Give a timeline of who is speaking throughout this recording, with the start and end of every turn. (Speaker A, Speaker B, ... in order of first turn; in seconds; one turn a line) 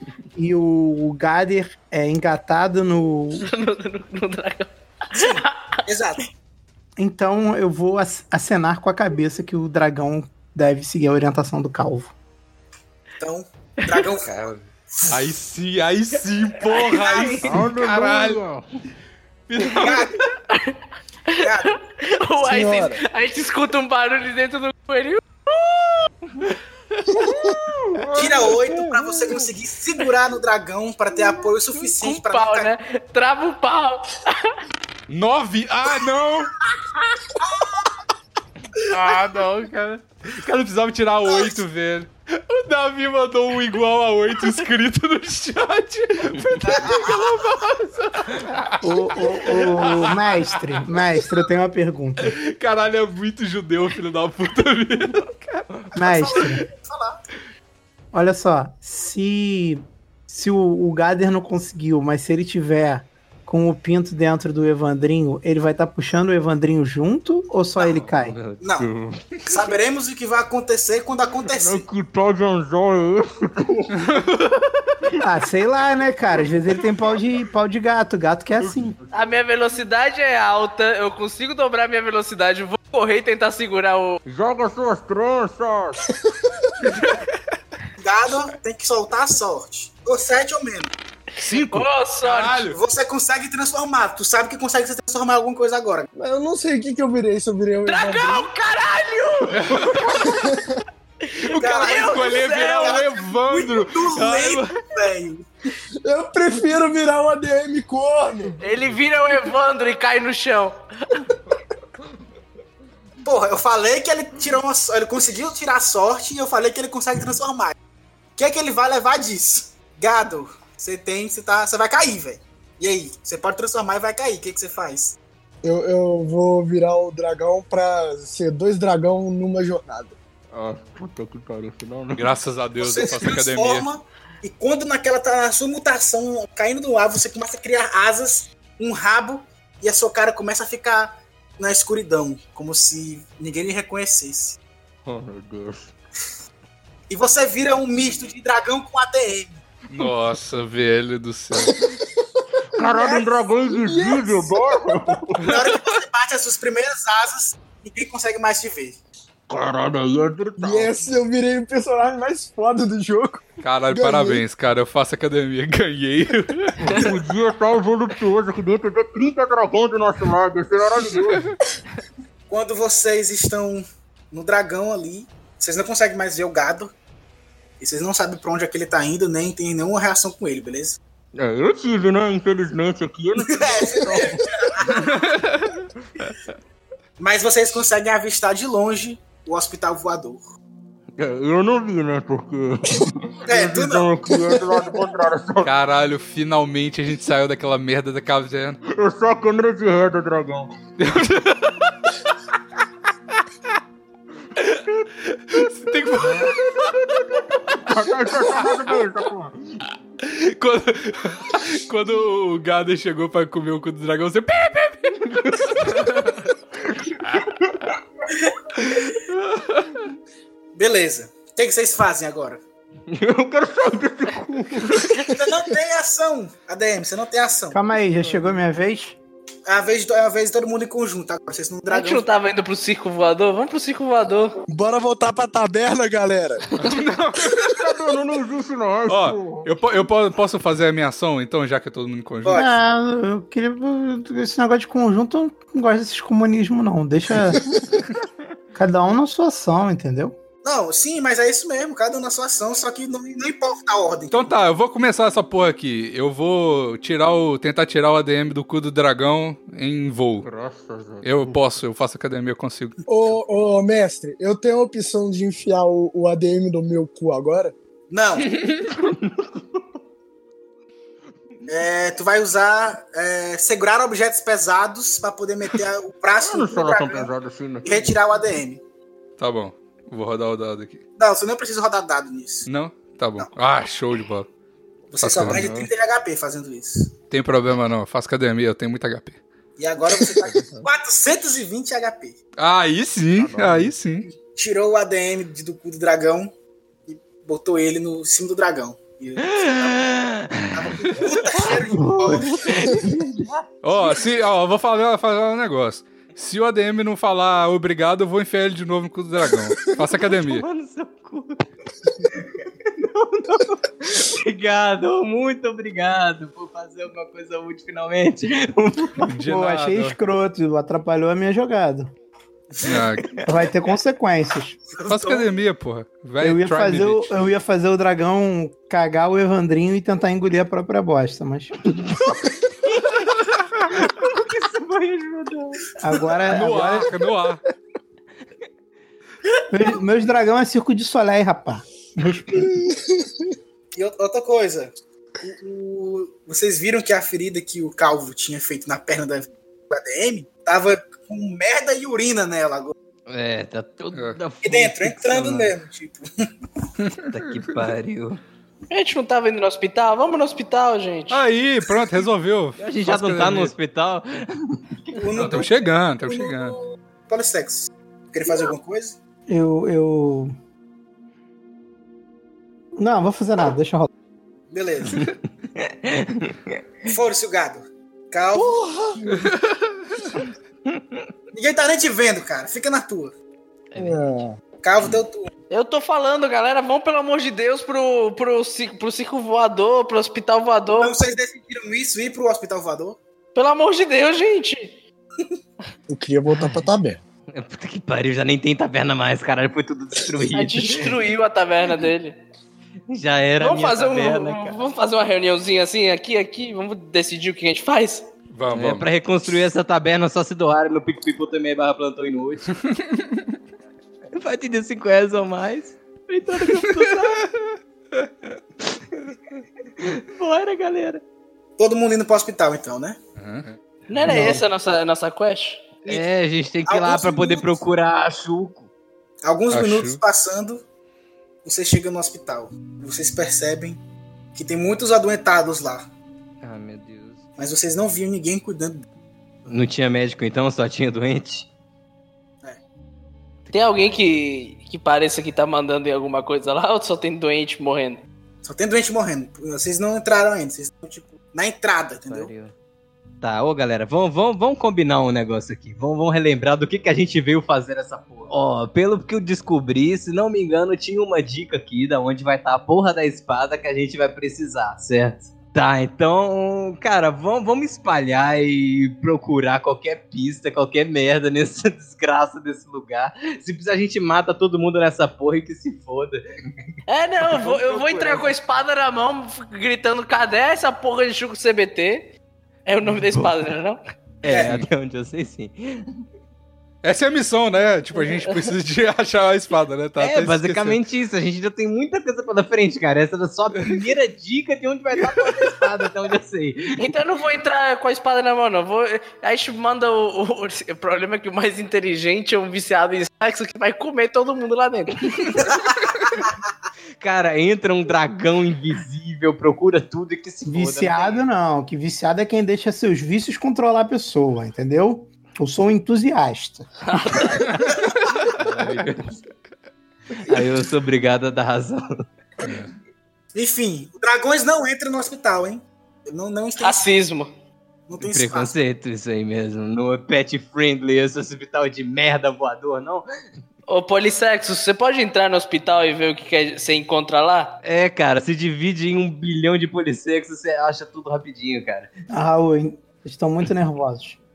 Speaker A: 0.3-3.5
Speaker B: 3.4-5.8
Speaker C: 5.1-6.3
Speaker A: 7.0-12.1
Speaker C: 13.2-14.4
Speaker D: 14.2-18.4
Speaker C: 16.8-17.6
Speaker E: 17.4-18.6
Speaker D: 19.5-20.2
Speaker C: 19.8-20.1
Speaker B: 21.3-26.1
Speaker C: 21.4-21.7
Speaker F: 22.4-23.0
Speaker E: 27.8-29.3
Speaker C: 28.1-32.7
Speaker B: 31.7-34.5
Speaker D: 35.1-36.5
Speaker C: 37.4-37.9
Speaker D: 38.9-50.6
Speaker C: 41.3-41.5
Speaker C: 46.6-47.3
Speaker A: 48.8-52.3
Speaker D: 52.2-55.7
Speaker A: 55.9-56.6
Speaker C: 56.0-57.2
Speaker A: 58.1-68.4
Speaker C: 67.8-68.0
Speaker E: 68.4-69.3
Speaker C: 68.6-68.9
Speaker C: 69.4-71.9
Speaker E: 71.5-74.0
Speaker D: 74.0-74.7
Speaker A: 75.2-79.0
Speaker E: 78.6-79.3
Speaker B: 79.1-84.2
Speaker E: 84.2-86.1
Speaker C: 88.0-90.9
Speaker D: 91.4-92.8
Speaker B: 91.7-92.7
Speaker C: 92.7-96.1
Speaker F: 96.1-98.5
Speaker B: 97.8-100.4
Speaker D: 99.5-100.3
Speaker F: 100.4-100.8
Speaker D: 101.4-104.8
Speaker B: 101.5-103.0
Speaker C: 101.5-105.5
Speaker F: 106.0-108.5
Speaker B: 108.6-110.8
Speaker C: 113.2-117.7
Speaker C: 118.4-125.2
Speaker F: 125.6-130.2
Speaker E: 130.5-132.4
Speaker D: 132.2-133.9
Speaker C: 132.8-144.6
Speaker E: 145.0-145.9
Speaker C: 147.1-149.6
Speaker D: 149.9-151.7
Speaker F: 151.6-152.1
Speaker E: 152.7-155.6
Speaker F: 152.8-155.1
Speaker C: 155.4-159.0
Speaker E: 159.5-161.0
Speaker F: 160.6-164.4
Speaker D: 163.6-166.9
Speaker E: 166.8-171.5
Speaker C: 172.5-176.9
Speaker C: 177.8-181.0
Speaker E: 181.3-184.4
Speaker C: 183.4-185.2
Speaker D: 185.0-185.8
Speaker C: 187.2-190.4
Speaker E: 191.2-195.7
Speaker C: 193.5-194.2
Speaker D: 195.6-198.8
Speaker E: 198.9-200.7
Speaker D: 201.0-202.1
Speaker D: 204.6-207.0
Speaker E: 206.2-206.5
Speaker E: 207.8-209.8
Speaker D: 210.2-216.5
Speaker D: 219.3-219.9
Speaker C: 220.7-222.6
Speaker E: 223.1-225.2
Speaker C: 225.3-227.8
Speaker A: 227.7-229.2
Speaker C: 229.7-232.3
Speaker B: 231.9-234.6
Speaker F: 234.7-236.7
Speaker D: 236.8-237.7
Speaker E: 237.6-239.7
Speaker D: 239.1-242.6
Speaker C: 242.4-242.7
Speaker A: 242.5-247.6
Speaker A: 248.7-250.3
Speaker C: 250.6-254.5
Speaker D: 254.3-260.5
Speaker E: 260.4-261.6
Speaker D: 261.2-263.0
Speaker F: 263.1-267.7
Speaker C: 268.1-268.6
Speaker C: 271.7-277.3
Speaker E: 276.4-278.1
Speaker C: 277.8-278.8
Speaker D: 279.4-281.0
Speaker C: 281.2-282.7
Speaker D: 282.7-284.5
Speaker C: 285.1-287.1
Speaker D: 285.2-285.7
Speaker E: 285.4-285.9
Speaker D: 287.3-289.4
Speaker C: 289.8-292.4
Speaker E: 290.3-290.9
Speaker D: 292.6-294.3
Speaker E: 293.4-293.9
Speaker C: 294.5-296.5
Speaker C: 297.1-300.1
Speaker G: 299.5-303.6
Speaker C: 300.7-303.0
Speaker D: 303.8-310.6
Speaker G: 310.3-319.3
Speaker D: 319.2-320.1
Speaker A: 319.4-322.1
Speaker D: 322.8-323.4
Speaker A: 323.4-324.8
Speaker C: 324.9-325.5
Speaker D: 325.1-327.3
Speaker A: 326.4-332.1
Speaker G: 332.9-333.3
Speaker G: 333.9-335.9
Speaker A: 336.0-337.1
Speaker D: 336.5-337.6
Speaker A: 339.7-342.9
Speaker F: 342.9-343.2
Speaker C: 343.9-352.9
Speaker G: 353.3-355.7
Speaker C: 354.6-356.5
Speaker D: 357.0-357.3
Speaker G: 357.3-358.4
Speaker B: 358.9-361.4
Speaker D: 361.3-363.7
Speaker G: 362.8-365.2
Speaker C: 365.1-369.1
Speaker D: 365.3-366.8
Speaker A: 369.5-370.5
Speaker A: 373.0-374.1
Speaker C: 374.7-375.3
Speaker G: 375.8-376.8
Speaker C: 377.0-378.9
Speaker F: 378.6-379.5
Speaker D: 379.4-380.2
Speaker G: 380.9-381.2
Speaker C: 381.5-383.3
Speaker G: 383.9-384.2
Speaker F: 384.0-384.6
Speaker C: 384.8-385.5
Speaker B: 385.7-391.1
Speaker C: 391.0-393.2
Speaker B: 393.5-395.0
Speaker F: 396.1-397.2
Speaker G: 397.5-401.2
Speaker B: 400.5-402.4
Speaker G: 403.1-404.8
Speaker B: 403.6-408.3
Speaker D: 408.5-409.1
Speaker G: 408.7-412.8
Speaker G: 414.3-417.5
Speaker G: 418.8-421.2
Speaker C: 421.8-423.2
Speaker D: 423.4-423.8
Speaker B: 424.1-426.0
Speaker G: 424.1-424.6
Speaker G: 426.1-428.9
Speaker C: 426.9-427.8
Speaker C: 429.4-430.8
Speaker D: 429.7-430.2
Speaker C: 431.6-434.0
Speaker C: 434.5-436.1
Speaker G: 436.6-437.4
Speaker C: 437.6-439.0
Speaker G: 439.6-441.7
Speaker B: 443.7-448.2
Speaker C: 448.6-452.5
Speaker G: 452.3-452.7
Speaker G: 453.4-476.4
Speaker B: 477.1-482.3
Speaker G: 477.4-478.5
Speaker B: 482.9-484.0
Speaker G: 483.0-483.6
Speaker G: 484.4-486.2
Speaker C: 484.4-484.8
Speaker D: 487.0-491.0
Speaker G: 490.2-497.1
Speaker B: 497.0-505.6
Speaker G: 507.2-511.4
Speaker A: 510.6-516.9
Speaker B: 517.1-517.9
Speaker D: 518.5-519.2
Speaker G: 518.5-519.3
Speaker G: 520.4-522.2
Speaker D: 522.6-522.9
Speaker C: 523.5-527.0
Speaker B: 526.8-527.5
Speaker C: 528.1-528.7
Speaker G: 528.2-533.2
Speaker B: 533.9-537.8
Speaker G: 537.8-542.1
Speaker A: 542.3-544.4